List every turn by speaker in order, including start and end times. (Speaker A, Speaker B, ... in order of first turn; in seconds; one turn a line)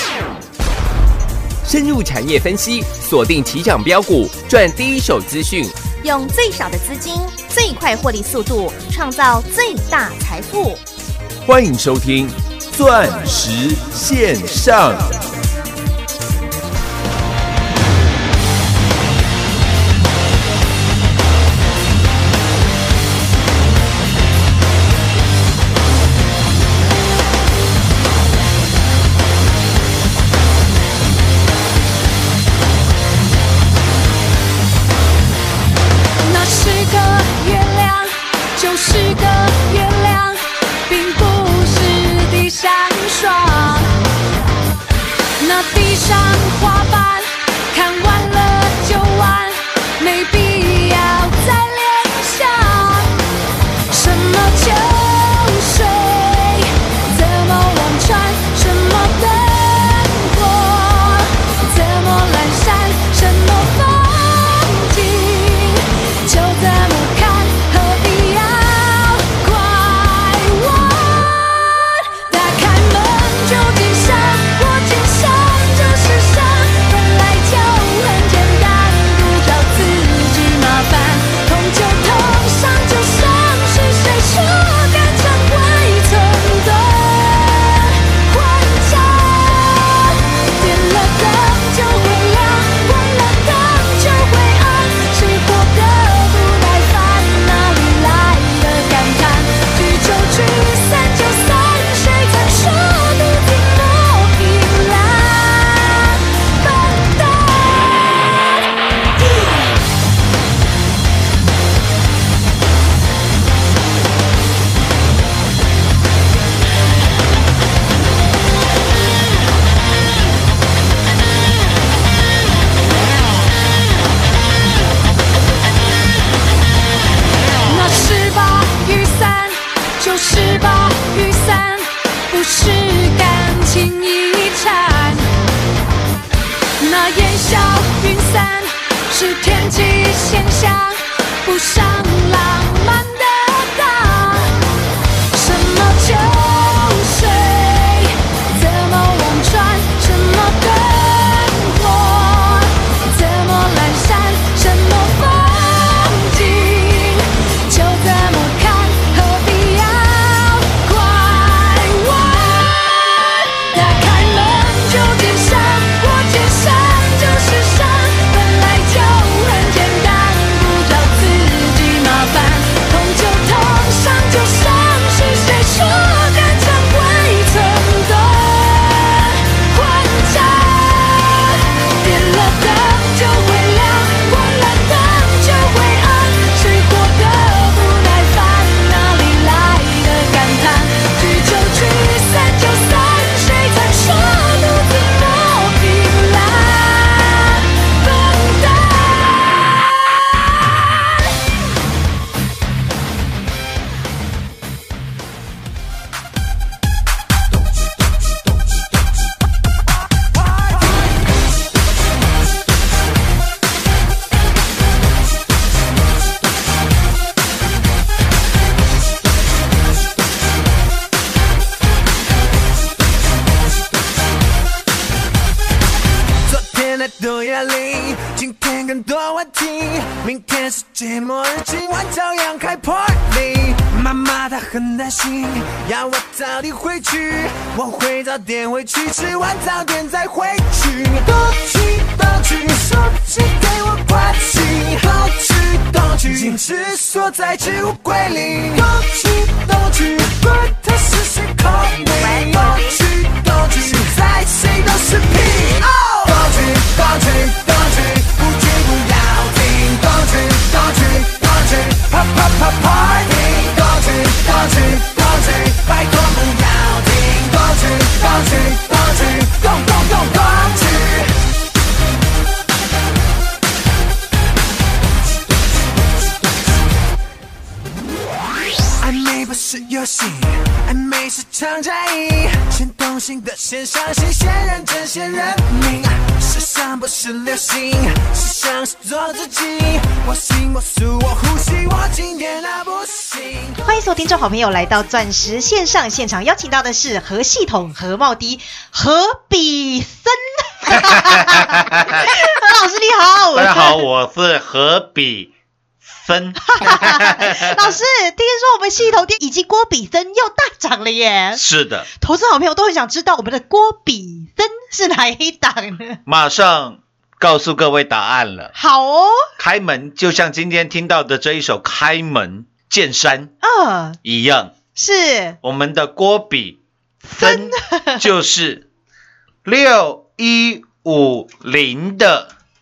Speaker A: 1.6-5.8
Speaker B: 5.9-10.8
Speaker A: 11.4-15.2
Speaker C: 36.2-43.9
Speaker C: 45.4-53.2
Speaker C: 53.9-108.6
Speaker C: 127.7-135.2
Speaker C: 136.8-144.5
Speaker C: 145.3-200.9
Speaker D: 226.4-271.3
Speaker E: 252.2-252.9
Speaker D: 279.0-293.8
Speaker E: 293.8-304.0
Speaker F: 300.9-302.4
Speaker F: 303.5-305.5
Speaker F: 306.1-308.0
Speaker E: 306.7-316.2
Speaker F: 311.5-312.1
Speaker F: 316.2-318.7
Speaker E: 318.7-319.4
Speaker F: 319.6-323.5
Speaker E: 323.6-324.2
Speaker F: 324.2-324.7
Speaker E: 324.9-325.6
Speaker F: 325.6-328.9
Speaker E: 327.3-328.2
Speaker F: 329.6-332.5